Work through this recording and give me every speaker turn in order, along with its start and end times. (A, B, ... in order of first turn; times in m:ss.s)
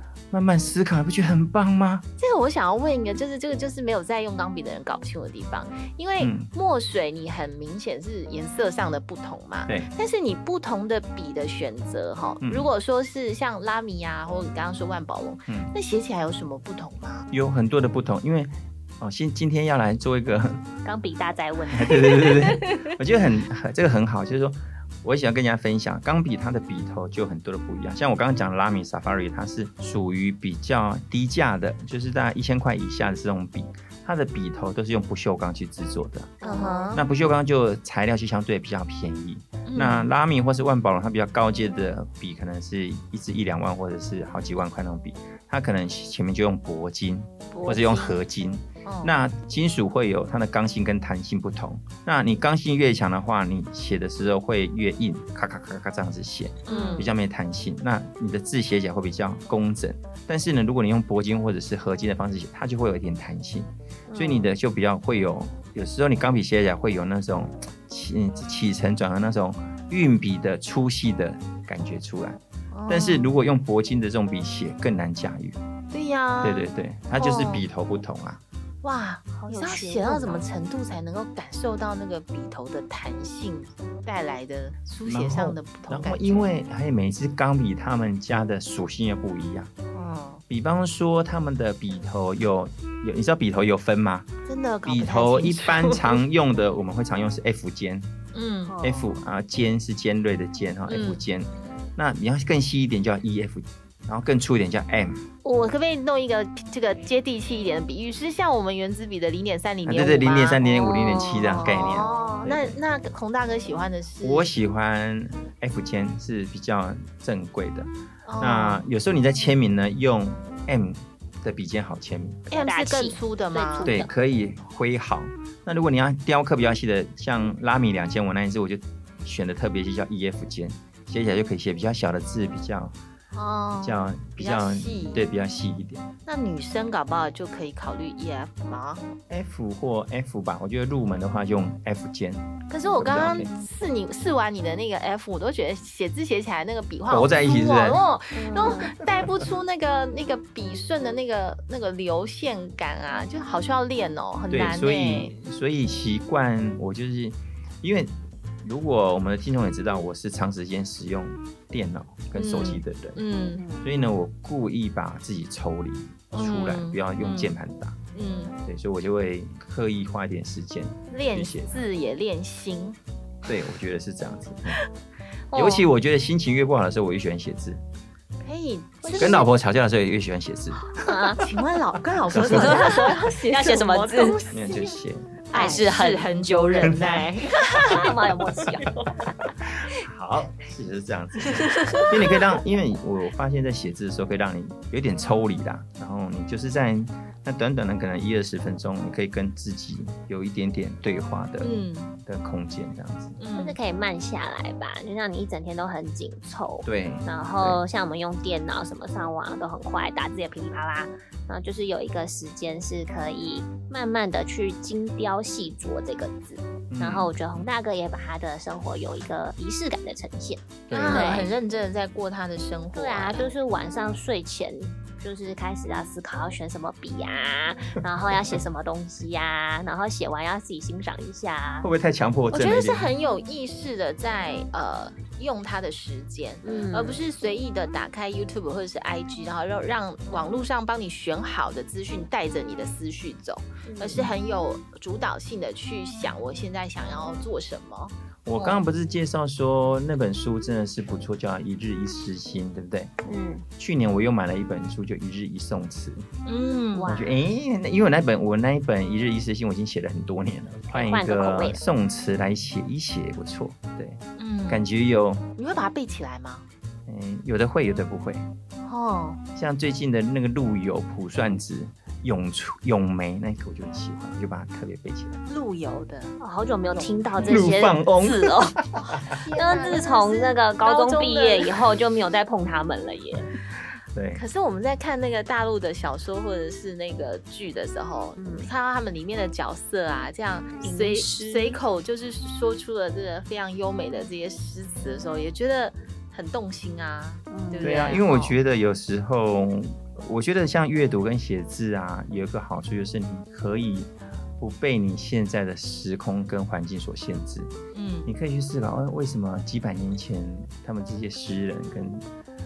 0:00.3-0:02.0 A
0:02.2-0:17.3 B
0:06.2-0:06.5 A
0:12.4-0:12.7 A
0:17.3-0:20.7 A
0:20.8-0:22.4 C
0:21.7-0:36.4 A
0:36.4-0:36.9 C
0:36.4-0:37.0 B
0:36.9-1:15.6 A
0:39.6-0:40.1 B
0:47.5-0:48.2 B
0:48.8-0:49.1 B
0:56.7-0:57.1 B
0:56.7-0:57.1 C
1:04.1-1:04.5 C
1:12.7-1:13.3 B
1:15.9-1:17.6 B
1:16.4-1:18.4 A
1:18.8-1:26.5 B
1:19.4-1:20.4 C
1:25.0-1:29.7 A
1:29.9-1:30.4 B
1:30.5-1:34.3 A
1:34.5-1:36.2 B
1:34.8-1:38.1 A
1:38.3-1:38.9 B
1:38.7-1:39.2 C
1:38.8-1:45.3 A
1:40.9-1:41.2 B
1:45.4-1:50.6 B
1:49.8-1:52.8 A
1:50.6-1:52.4 C
1:51.4-1:54.5 B
1:54.2-2:02.5 A
1:58.3-1:58.8 B
2:02.5-2:03.9 B
2:02.5-2:04.1 C
2:03.8-2:13.0 A
2:13.3-2:15.3 B
2:13.8-2:16.1 A
2:16.3-2:19.0 B
2:19.3-2:23.5 A
2:22.7-2:35.3 B
2:27.1-2:28.0 A
2:28.3-2:28.9 C
2:29.2-2:29.5 A
2:34.5-2:43.2 A
2:42.4-2:43.6 B
2:43.6-2:43.8 C
2:43.8-2:48.0 A
2:46.3-2:47.6 B
2:48.1-2:48.6 B
2:48.6-2:51.8 A
2:51.1-2:53.0 B
2:53.4-2:54.8 A
2:55.5-2:55.8 C
2:55.5-2:57.8 A
2:58.4-2:59.5 B
2:59.0-2:59.4 C
2:59.2-3:00.9 A
3:01.0-3:01.4 C
3:01.3-3:05.0 B
3:02.3-3:03.0 A
3:02.5-3:04.4 C
3:04.5-3:05.4 A
3:05.5-3:08.1 B
3:05.5-3:09.2 C
3:06.8-3:07.2 A
3:09.6-3:23.4 A
3:11.6-3:12.1 C
3:21.6-3:22.1 B
3:23.4-3:23.8 B
3:23.6-3:41.5 C
3:26.8-3:27.8 A
3:36.9-3:37.3 A
3:40.9-3:41.4 A
3:40.9-3:43.5 B
3:42.9-3:51.9 C
3:51.8-3:53.1 A
3:52.5-4:08.1 B
3:56.6-3:57.2 C
4:03.9-4:04.2 C
4:08.4-4:13.2 A
4:08.6-4:08.8 C
4:13.3-4:13.6 C
4:13.8-4:16.3 A
4:16.5-4:17.2 B
4:16.9-4:17.3 C
4:17.1-4:25.5 A
4:20.9-4:21.8 C
4:24.4-4:24.8 B
4:25.6-4:26.6 B
4:27.1-4:28.5 A
4:28.8-4:29.4 B
4:29.6-4:35.4 A
4:35.5-4:36.4 B
4:36.4-4:43.5 C
4:36.9-4:37.7 B
4:37.4-4:39.2 A
4:39.0-4:41.8 B
4:44.1-4:44.4 A
4:44.4-4:58.6 B
4:48.4-4:48.7 C
4:50.8-4:51.8 C
4:57.5-4:58.2 C
4:57.8-5:07.7 A
5:07.9-5:08.3 B
5:08.3-5:12.3 A